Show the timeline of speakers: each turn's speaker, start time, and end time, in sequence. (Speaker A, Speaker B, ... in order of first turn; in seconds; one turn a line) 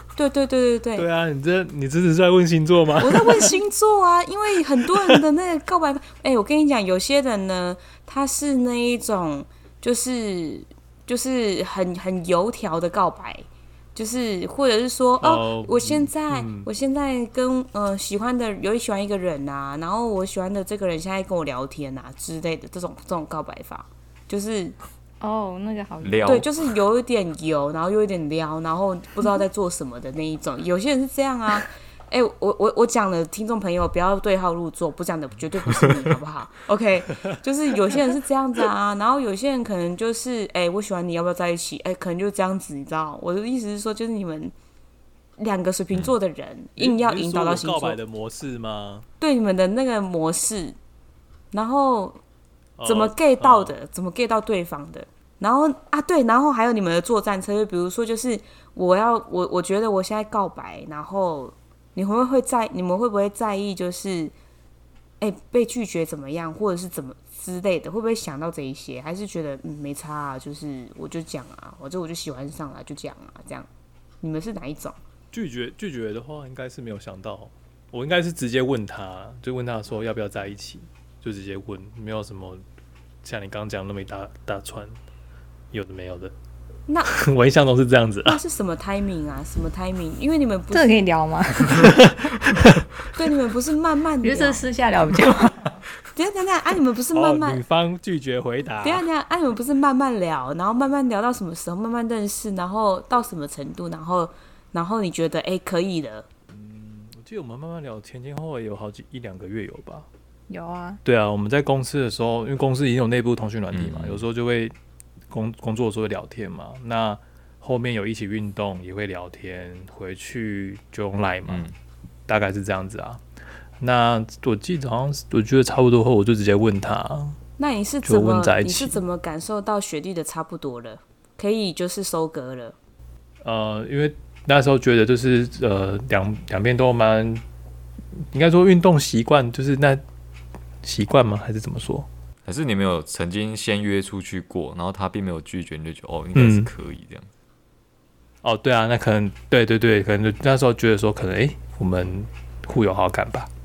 Speaker A: 0.1-1.1
Speaker B: 0.9-3.6
Speaker A: 3.0-24.8
Speaker B: 15.2-16.7
Speaker C: 25.2-26.4
Speaker D: 26.0-26.7
Speaker A: 26.2-44.5
Speaker A: 45.4-48.0
Speaker B: 46.8-49.0
Speaker A: 49.2-50.8
Speaker A: 51.5-52.2
Speaker B: 52.8-53.8
Speaker A: 52.8-64.3
Speaker A: 65.2-73.7
Speaker A: 74.2-75.0
Speaker B: 75.3-82.6
Speaker B: 83.2-85.0
Speaker B: 85.7-86.3
Speaker A: 86.9-87.1
Speaker B: 87.1-88.4
Speaker A: 88.2-91.0
Speaker C: 90.7-92.2
Speaker B: 91.7-92.8
Speaker A: 93.1-94.7
Speaker C: 94.2-95.7
Speaker A: 96.1-97.6
Speaker B: 97.1-99.0
Speaker A: 98.8-106.3
Speaker B: 106.5-110.1
Speaker C: 110.5-111.0
Speaker B: 111.0-114.7
Speaker D: 113.7-114.2
Speaker B: 115.3-121.7
Speaker D: 121.5-121.7
Speaker B: 122.3-123.2
Speaker B: 123.8-127.4
Speaker A: 127.6-132.7
Speaker B: 128.0-129.0
Speaker B: 133.4-137.4
Speaker B: 138.2-140.0
Speaker B: 140.8-142.1
Speaker D: 142.4-147.3
Speaker B: 146.3-146.7
Speaker B: 148.4-153.5